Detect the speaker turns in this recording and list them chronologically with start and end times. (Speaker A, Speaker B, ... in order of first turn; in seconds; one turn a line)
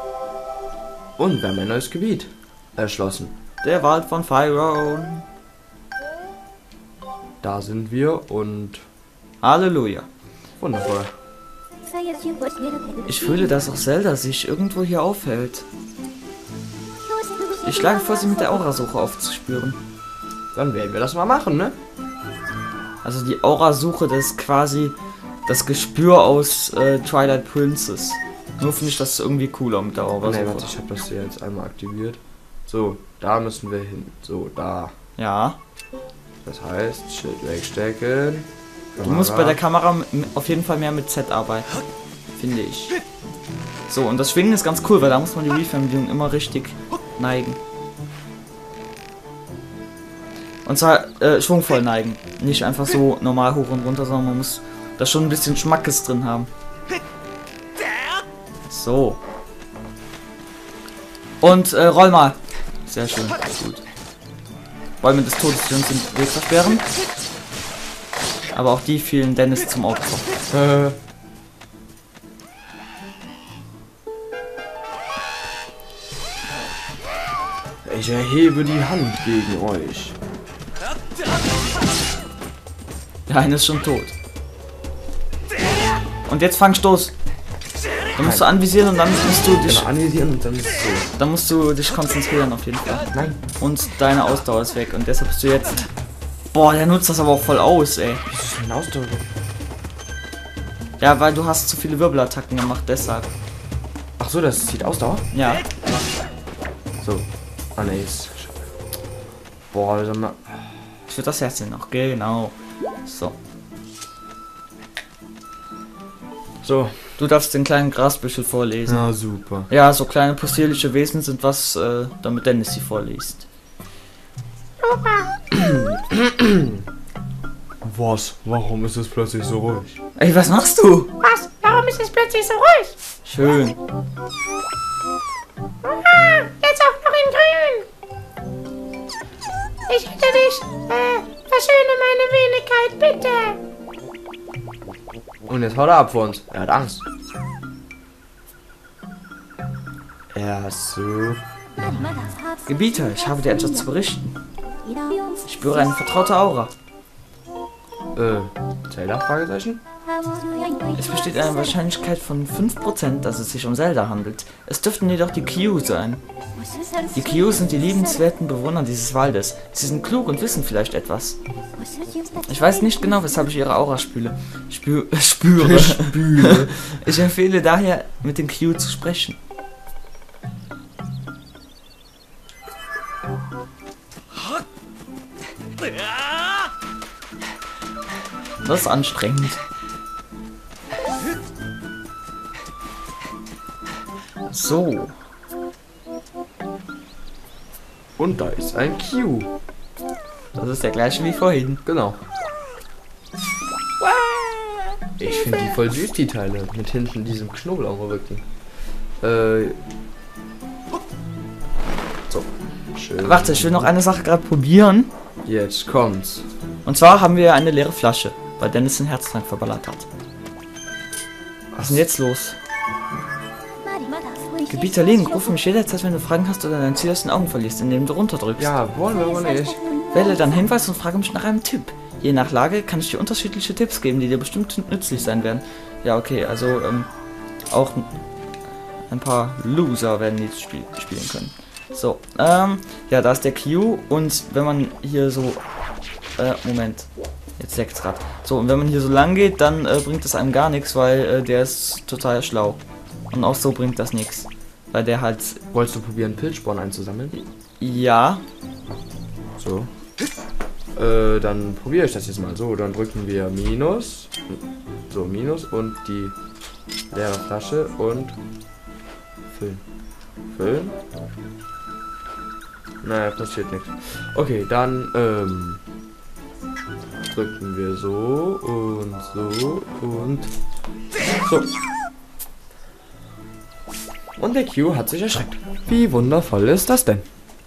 Speaker A: 1.2-3.4
Speaker B: 3.6-5.3
Speaker A: 7.4-8.8
Speaker B: 9.4-10.1
Speaker A: 10.6-11.1
Speaker B: 13.1-15.7
Speaker B: 17.5-19.8
Speaker A: 20.5-21.8
Speaker B: 23.0-30.7
Speaker A: 30.2-34.9
Speaker B: 35.2-35.6
Speaker A: 36.5-39.6
Speaker B: 39.0-41.7
Speaker B: 42.3-43.0
Speaker B: 43.9-47.6
Speaker B: 50.7-56.5
Speaker B: 58.7-59.2
Speaker B: 61.4-63.8
Speaker B: 65.0-66.9
Speaker B: 68.5-70.3
Speaker A: 70.5-71.0
Speaker A: 77.8-80.2
Speaker B: 83.3-84.1
Speaker B: 86.3-87.1
Speaker B: 88.2-89.9
Speaker A: 88.2-88.5
Speaker A: 89.6-91.1
Speaker B: 91.2-95.9
Speaker A: 93.1-93.4
Speaker B: 96.5-98.2
Speaker A: 98.3-99.3
Speaker B: 101.0-103.3
Speaker A: 104.2-105.3
Speaker B: 105.3-105.6
Speaker A: 107.0-108.6
Speaker A: 109.7-110.7
Speaker B: 111.1-112.5
Speaker B: 113.1-113.4
Speaker A: 116.6-117.1
Speaker B: 117.2-119.0
Speaker A: 118.9-119.7
Speaker B: 119.7-123.5
Speaker C: 124.8-125.3
Speaker A: 125.5-126.8
Speaker A: 127.8-130.0
Speaker B: 130.2-131.1
Speaker C: 131.2-133.0
Speaker B: 133.2-133.8
Speaker C: 135.8-137.9
Speaker C: 139.9-143.6
Speaker A: 145.5-147.1
Speaker A: 150.3-151.9
Speaker B: 152.7-154.4
Speaker B: 155.4-156.7
Speaker A: 158.2-159.8
Speaker B: 160.9-166.2
Speaker B: 167.1-171.4
Speaker B: 172.5-179.4
Speaker A: 175.6-177.1
Speaker B: 188.6-189.6
Speaker B: 194.5-195.1
Speaker A: 198.2-199.5
Speaker B: 200.6-201.8
Speaker A: 201.8-202.2
Speaker A: 205.2-208.5
Speaker A: 209.2-209.8
Speaker A: 212.3-213.9
Speaker B: 213.2-215.1
Speaker A: 215.4-216.5
Speaker B: 216.8-220.1
Speaker A: 221.7-222.1
Speaker B: 221.8-222.6
Speaker B: 224.7-228.7
Speaker A: 228.6-229.8
Speaker B: 230.1-237.1
Speaker B: 237.7-238.1
Speaker B: 239.1-245.6
Speaker B: 246.4-252.8
Speaker B: 253.3-255.6
Speaker A: 255.7-257.4
Speaker B: 257.8-258.4
Speaker A: 259.6-259.9
Speaker A: 261.0-266.4
Speaker A: 267.1-268.4
Speaker A: 269.5-269.8
Speaker A: 270.5-271.0
Speaker A: 273.0-275.8
Speaker A: 277.3-280.5
Speaker A: 281.4-281.7
Speaker A: 284.4-287.3